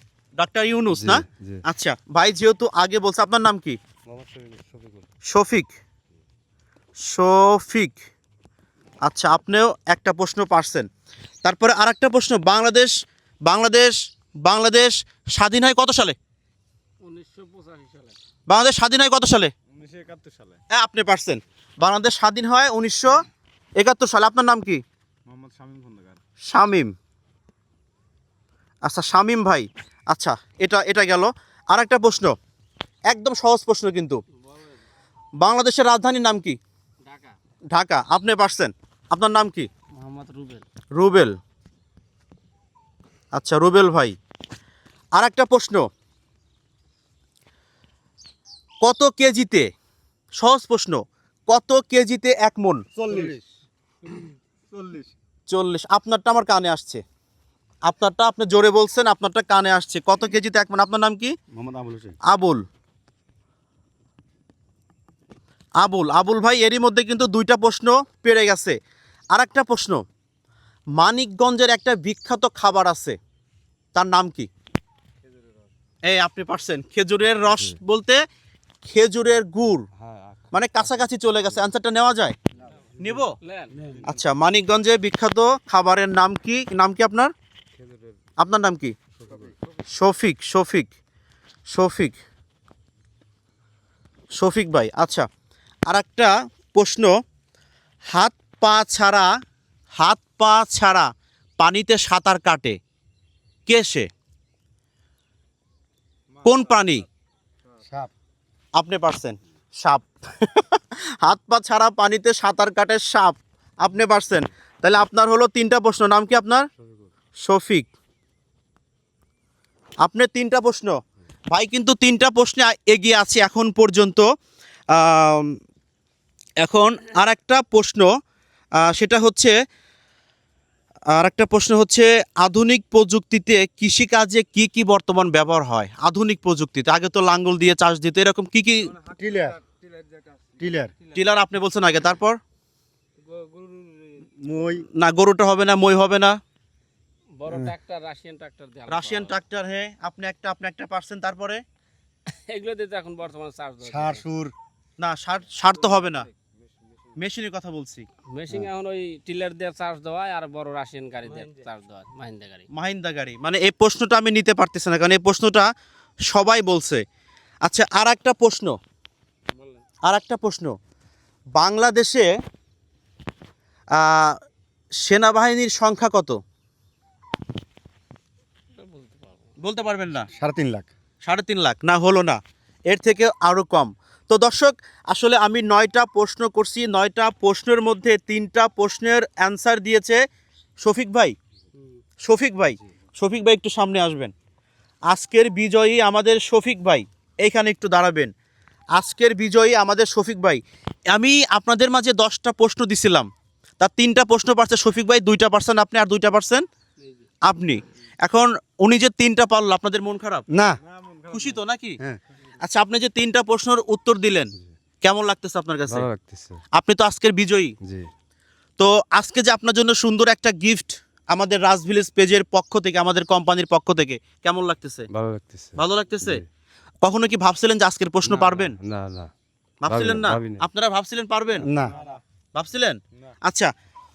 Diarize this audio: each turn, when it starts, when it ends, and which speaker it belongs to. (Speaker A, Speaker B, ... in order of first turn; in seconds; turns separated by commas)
Speaker A: 0.4-3.8, Speaker B: 0.9-1.6, Speaker B: 4.1-5.0, Speaker A: 5.3-5.7, Speaker A: 7.0-7.9, Speaker A: 9.0-10.9, Speaker A: 11.4-12.9, Speaker A: 13.4-16.1, Speaker C: 17.0-18.2, Speaker A: 18.5-19.5, Speaker D: 19.8-20.6, Speaker A: 20.7-23.2, Speaker A: 23.8-24.8, Speaker D: 25.3-26.1, Speaker A: 26.5-26.9, Speaker A: 28.8-32.3, Speaker A: 33.1-34.2, Speaker A: 35.4-36.6, Speaker C: 37.1-37.3, Speaker A: 37.7-39.7, Speaker C: 39.9-40.6, Speaker A: 40.9-41.3, Speaker A: 43.3-44.1, Speaker A: 45.1-45.9, Speaker A: 48.8-49.7, Speaker A: 50.4-52.8, Speaker D: 53.0-53.4, Speaker D: 54.7-55.1, Speaker A: 55.5-57.0, Speaker A: 57.9-61.3, Speaker D: 61.5-62.1, Speaker A: 62.2-62.6, Speaker A: 65.8-68.8, Speaker A: 69.3-70.0, Speaker A: 71.0-73.2, Speaker A: 73.9-74.5, Speaker A: 76.0-78.2, Speaker A: 78.8-79.8, Speaker B: 80.0-80.5, Speaker A: 80.5-82.3, Speaker A: 83.0-83.4, Speaker C: 83.4-84.0, Speaker A: 84.0-87.3, Speaker B: 87.8-88.1, Speaker A: 88.4-88.9, Speaker B: 89.2-89.5, Speaker A: 89.9-90.9, Speaker A: 91.7-92.2, Speaker A: 94.4-95.3, Speaker A: 95.9-97.1, Speaker A: 98.1-99.3, Speaker A: 100.0-101.1, Speaker A: 101.6-102.8, Speaker A: 103.7-104.1, Speaker A: 106.4-107.0, Speaker A: 108.8-116.7, Speaker A: 117.4-117.9, Speaker A: 120.0-121.0, Speaker A: 121.5-124.3, Speaker A: 124.9-125.6, Speaker A: 126.6-128.1, Speaker A: 128.8-129.5, Speaker A: 131.1-138.9, Speaker D: 139.2-139.6, Speaker D: 140.6-140.9, Speaker A: 141.1-142.4, Speaker C: 143.3-144.1, Speaker D: 144.4-144.8, Speaker A: 144.9-146.4, Speaker C: 147.4-149.3, Speaker A: 148.9-151.6, Speaker C: 152.3-154.2, Speaker D: 153.9-154.5, Speaker A: 155.0-156.3, Speaker A: 157.2-158.1, Speaker C: 158.3-162.7, Speaker A: 162.7-165.7, Speaker A: 166.3-167.0, Speaker A: 167.6-168.8, Speaker A: 170.1-170.8, Speaker A: 171.6-172.3, Speaker A: 173.9-174.4, Speaker A: 175.0-176.4, Speaker C: 178.7-179.5, Speaker A: 179.6-180.3, Speaker D: 180.4-180.9, Speaker A: 181.2-190.2, Speaker A: 190.8-191.3, Speaker A: 192.2-194.3, Speaker A: 195.1-198.3, Speaker A: 198.9-203.3, Speaker A: 203.8-206.6, Speaker A: 207.4-210.4, Speaker D: 210.5-210.8, Speaker A: 211.3-212.0, Speaker A: 212.6-216.1, Speaker B: 215.9-216.6, Speaker A: 216.7-217.7, Speaker B: 217.8-218.1, Speaker A: 218.8-225.1, Speaker B: 225.1-226.4, Speaker A: 225.8-226.4, Speaker A: 227.0-228.8, Speaker B: 228.2-229.3, Speaker A: 229.8-231.7, Speaker B: 229.9-230.6, Speaker D: 231.7-231.9, Speaker A: 232.5-233.7